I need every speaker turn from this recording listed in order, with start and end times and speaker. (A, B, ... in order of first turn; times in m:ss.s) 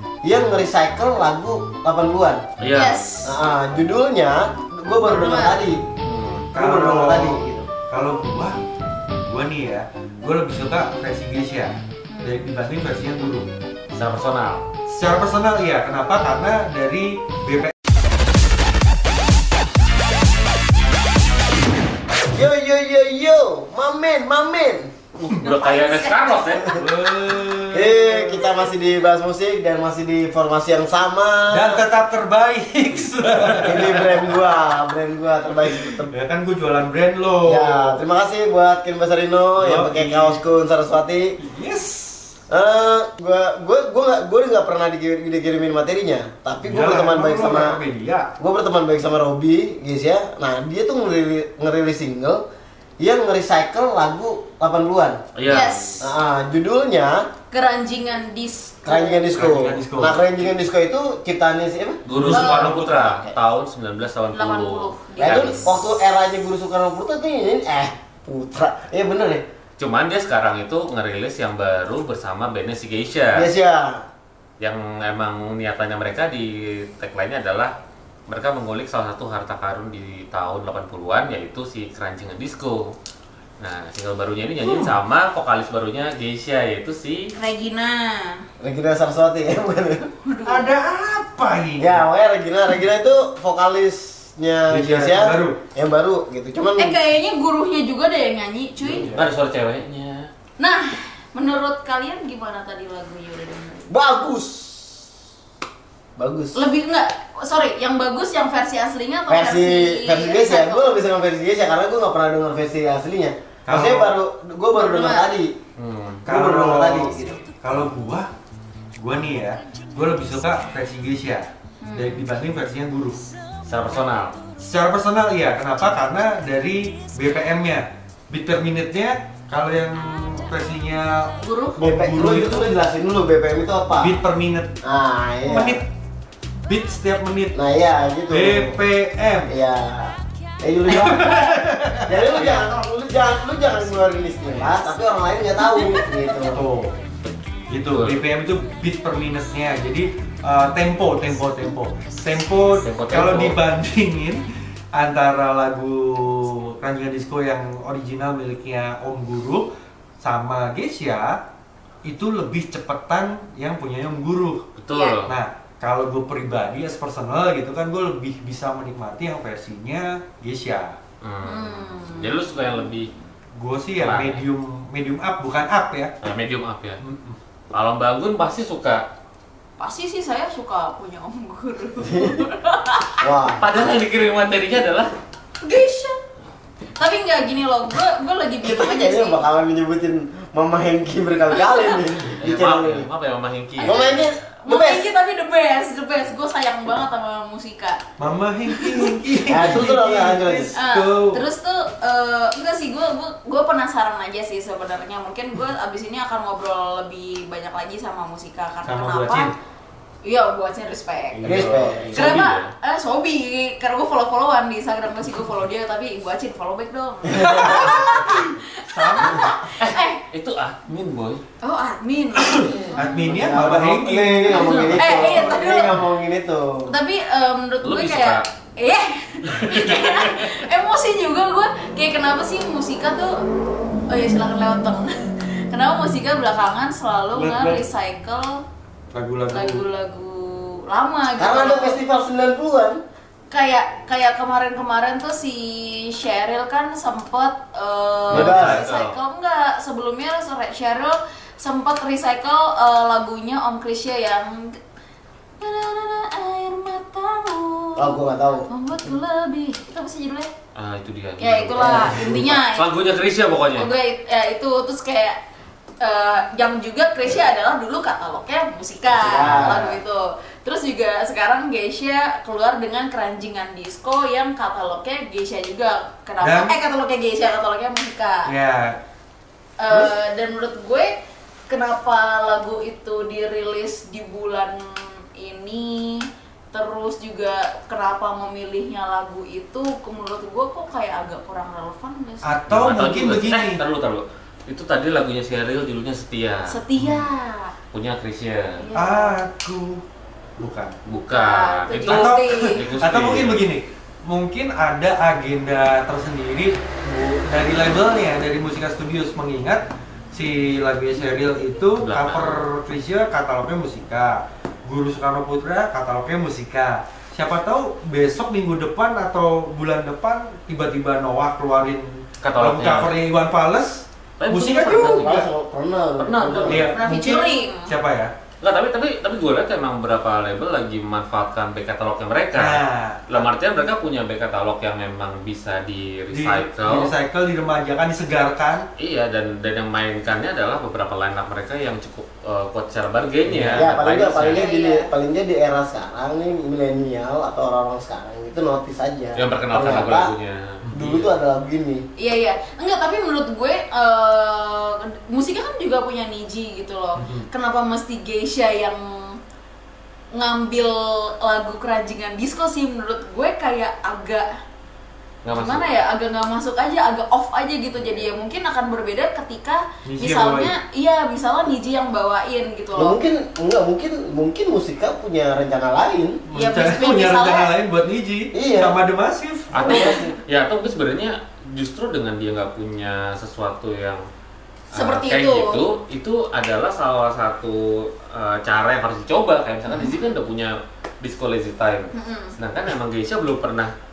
0:00.2-0:02.4 A
0:02.6-0:03.1 B
0:02.7-0:03.4 C
0:03.2-0:05.8 A
0:05.0-0:05.6 C
0:06.0-0:06.5 B
0:06.5-0:08.6 D
0:06.6-0:07.7 A
0:09.2-0:13.5 D
0:12.1-0:12.6 C
0:13.9-0:14.6 B
0:14.9-0:17.7 D
0:22.3-0:24.9 A
0:25.2-0:26.7 B
0:25.4-0:26.8 C
0:26.5-0:26.8 A
0:26.7-0:28.4 D
0:27.7-0:31.8 A
0:31.5-0:34.5 D
0:33.7-0:36.1 A
0:35.8-0:38.0 D
0:37.4-0:41.4 A
0:39.6-0:40.4 D
0:41.4-0:42.3 D
0:42.5-0:47.8 A
0:46.6-0:48.3 D
0:48.4-0:52.4 A
0:53.0-0:55.2 A
0:55.4-0:56.0 B
0:55.4-0:56.0 C
0:56.0-0:57.3 A
0:57.5-0:59.3 C
0:58.8-1:02.0 A
0:59.3-1:00.5 D
1:02.0-1:05.8 B
1:02.1-1:03.3 D
1:02.3-1:02.7 C
1:04.3-1:05.6 C
1:05.2-1:09.4 A
1:09.8-1:13.4 B
1:13.3-1:14.0 A
1:14.6-1:17.7 B
1:18.3-1:22.9 B
1:23.6-1:27.3 B
1:27.4-1:28.4 C
1:28.6-1:30.1 A
1:30.2-1:30.7 C
1:30.4-1:32.0 D
1:31.8-1:37.0 A
1:34.7-1:35.6 D
1:36.8-1:39.1 C
1:38.9-1:39.2 D
1:39.0-1:40.3 B
1:40.6-1:43.9 C
1:43.9-1:45.1 A
1:46.2-1:46.6 A
1:46.6-1:51.0 C
1:49.3-1:55.5 A
1:53.7-1:54.1 D
1:54.7-1:55.3 C
1:55.8-1:56.2 B
1:56.2-1:58.3 D
1:56.3-1:57.4 A
1:59.0-2:03.2 D
2:01.8-2:02.3 C
2:03.6-2:04.4 B
2:04.6-2:12.8 D
2:11.4-2:11.7 C
2:11.8-2:14.2 A
2:14.0-2:14.8 D
2:14.8-2:15.8 A
2:15.4-2:15.8 D
2:16.7-2:17.6 D
2:17.5-2:18.8 A
2:18.3-2:19.5 D
2:19.5-2:26.6 A
2:20.9-2:22.4 D
2:22.3-2:22.7 B
2:25.6-2:26.1 C
2:26.5-2:27.0 D
2:27.7-2:39.7 D
2:27.9-2:28.2 B
2:32.8-2:33.6 B
2:40.2-2:41.4 D
2:42.0-2:44.7 D
2:44.8-2:45.3 B
2:44.9-2:45.2 C
2:45.2-2:51.0 D
2:51.2-2:53.1 B
2:51.4-2:52.4 C
2:53.6-2:56.1 D
2:54.0-2:54.4 B
2:56.2-2:57.0 B
2:57.0-2:57.4 D
2:57.7-2:59.1 B
2:59.8-3:03.2 C
3:02.0-3:02.4 A
3:03.2-3:03.7 A
3:03.6-3:05.1 B
3:05.6-3:06.2 C
3:07.0-3:09.4 C
3:08.6-3:13.1 A
3:11.6-3:12.0 C
3:12.4-3:14.2 B
3:13.8-3:18.0 C
3:13.8-3:15.0 A
3:18.2-3:21.4 D
3:18.7-3:19.8 C
3:19.5-3:20.8 A
3:20.7-3:29.5 C
3:28.8-3:29.5 D
3:30.2-3:31.5 C
3:31.4-3:32.7 B
3:31.4-3:32.3 A
3:31.6-3:32.0 D
3:32.1-3:40.2 C
3:37.3-3:38.0 A
3:38.0-3:39.6 D
3:39.8-3:41.4 B
3:41.6-3:43.3 C
3:42.8-3:46.9 A
3:42.9-3:44.9 D
3:44.5-3:45.3 B
3:45.0-3:46.0 C
3:46.9-3:53.4 C
3:47.8-3:48.4 B
3:49.6-3:50.5 B
3:54.1-3:58.6 C
3:57.3-3:57.8 D
3:59.1-3:59.8 D
3:59.5-4:02.0 C
4:01.4-4:03.0 A
4:03.5-4:14.8 C
4:08.3-4:09.2 B
4:08.3-4:08.8 A
4:08.3-4:08.8 D
4:15.6-4:20.5 C
4:18.0-4:18.7 A
4:20.8-4:23.9 B
4:21.4-4:22.9 C
4:21.8-4:22.3 A
4:23.7-4:25.4 C
4:26.0-4:38.5 C
4:29.2-4:29.8 A
4:29.4-4:30.0 B
4:29.5-4:29.8 D
4:36.4-4:36.8 D
4:38.4-4:39.0 D
4:39.8-4:41.1 C
4:41.7-4:52.9 C
4:52.4-4:53.8 D
4:52.7-4:56.7 B
4:56.7-4:57.7 C
4:57.0-4:57.3 D
4:57.9-4:58.8 B
4:58.8-4:59.4 C
4:58.9-5:00.0 D
5:00.6-5:01.0 D
5:01.1-5:03.6 B
5:01.2-5:02.8 C
5:02.0-5:25.5 D
5:12.0-5:12.6 B
5:22.4-5:23.1 B
5:24.4-5:25.4 B
5:25.1-5:26.9 A
5:26.2-5:27.1 B
5:26.6-5:28.3 D
5:26.9-5:27.9 C
5:28.6-5:37.1 B
5:32.5-5:33.5 D
5:36.3-5:38.9 D
5:39.0-5:44.6 B
5:43.4-5:43.9 D
5:43.7-5:50.3 A
5:44.5-5:45.1 C
5:49.4-5:51.3 B
5:51.0-5:52.0 A
5:52.2-5:59.4 C
5:57.2-5:57.5 D
6:00.3-6:04.5 C
6:05.4-6:06.0 B
6:05.5-6:13.2 C
6:10.0-6:10.7 D
6:13.0-6:16.4 A
6:16.5-6:19.8 D
6:16.5-6:17.7 C
6:18.5-6:19.0 A
6:19.7-6:24.2 B
6:19.8-6:20.2 C
6:19.8-6:20.3 A
6:24.9-6:25.8 C
6:24.9-6:33.9 B
6:29.9-6:30.3 C
6:32.1-6:32.5 C